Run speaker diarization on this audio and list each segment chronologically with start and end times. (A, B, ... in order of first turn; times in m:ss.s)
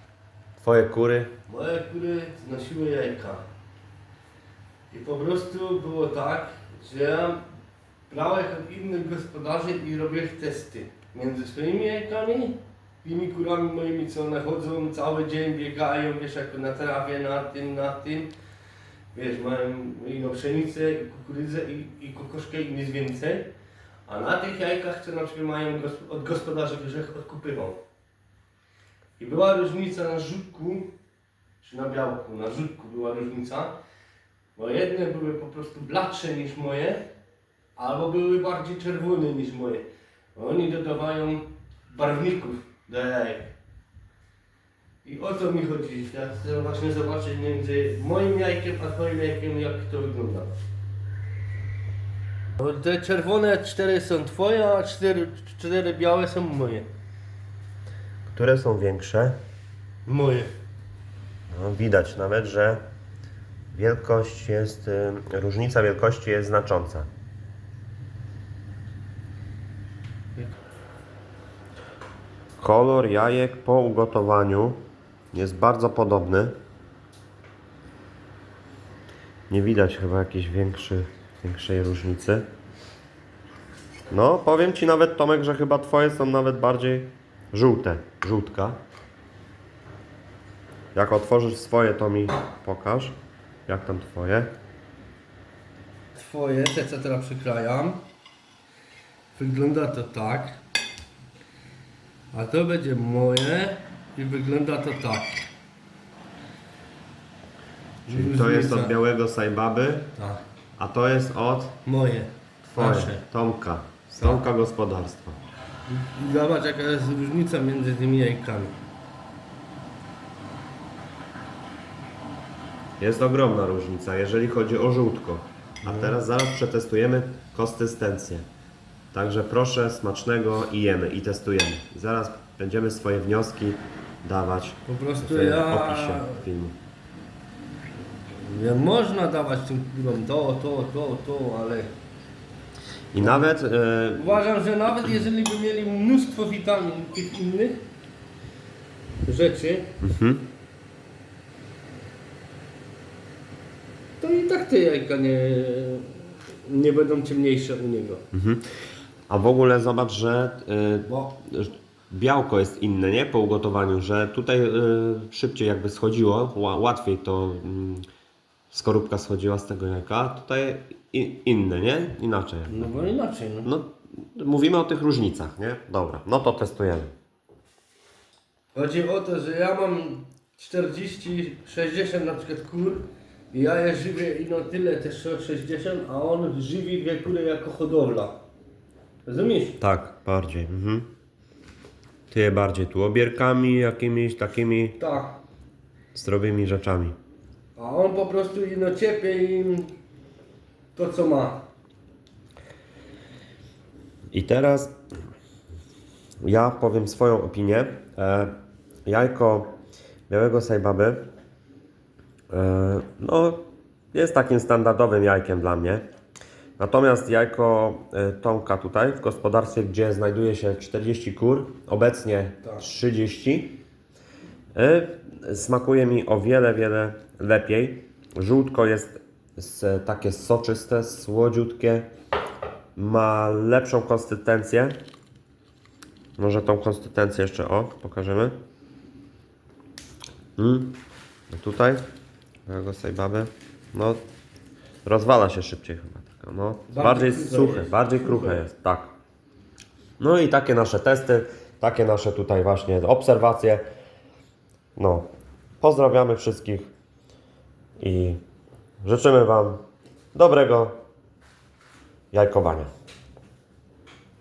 0:00.6-0:01.3 A
0:01.5-0:03.4 B
0:04.9-0:07.4 B
0:08.1-0:18.3 B
0:19.1-0:23.5 B
0:24.1-0:27.8 B
0:29.2-0:30.9 B
0:31.6-0:33.8 B
0:34.6-0:37.0 B
0:37.8-0:43.5 B
0:45.0-0:50.5 B
0:52.6-0:56.9 B
0:58.3-0:59.4 A
1:00.1-1:00.5 B
1:01.5-1:02.8 A
1:03.7-1:07.1 A
1:12.6-1:14.8 A
1:15.3-1:16.5 A
1:19.5-1:22.5 A
1:24.1-1:28.8 A
1:31.0-1:33.2 A
1:33.7-1:34.5 A
1:36.1-1:38.0 B
1:39.3-1:40.6 B
1:42.3-1:45.5 B
1:48.1-1:48.9 B
1:48.1-1:50.1 A
1:50.2-1:50.4 B
1:50.8-1:51.8 A
1:51.8-1:53.2 B
1:52.7-1:55.4 A
1:55.9-1:58.8 B
2:03.0-2:08.4 A
2:05.8-2:06.2 B
2:09.1-2:16.8 A
2:14.9-2:16.4 B
2:18.3-2:21.9 B
2:23.1-2:24.4 A
2:23.2-2:23.6 B
2:24.2-2:27.8 B
2:29.2-2:29.9 B
2:30.0-2:30.4 A
2:34.2-2:38.2 B
2:38.3-2:38.6 A
2:39.3-2:48.0 A
2:41.1-2:41.4 B
2:48.7-2:52.8 A
2:52.7-2:53.7 B
2:53.6-2:57.1 A
2:58.8-3:08.4 B
3:09.3-3:09.8 B
3:09.8-3:11.1 A
3:12.3-3:15.0 A
3:15.0-3:15.4 B
3:16.1-3:17.2 A
3:17.8-3:19.9 B
3:21.0-3:21.7 B
3:24.3-3:24.9 A
3:26.4-3:28.5 A
3:29.1-3:29.7 A
3:30.3-3:31.2 A
3:32.5-3:33.6 A
3:34.1-3:36.0 A
3:36.8-3:43.8 A
3:44.8-3:52.1 A
3:53.0-3:55.0 A
3:56.4-3:58.6 A
4:00.6-4:00.9 A
4:01.5-4:02.0 A
4:02.7-4:04.2 A
4:05.0-4:09.1 A
4:06.9-4:08.6 B
4:10.2-4:13.8 A
4:15.0-4:15.3 A
4:15.8-4:16.9 A
4:18.0-4:18.4 A
4:19.0-4:19.8 A
4:20.3-4:20.9 A
4:22.3-4:22.9 A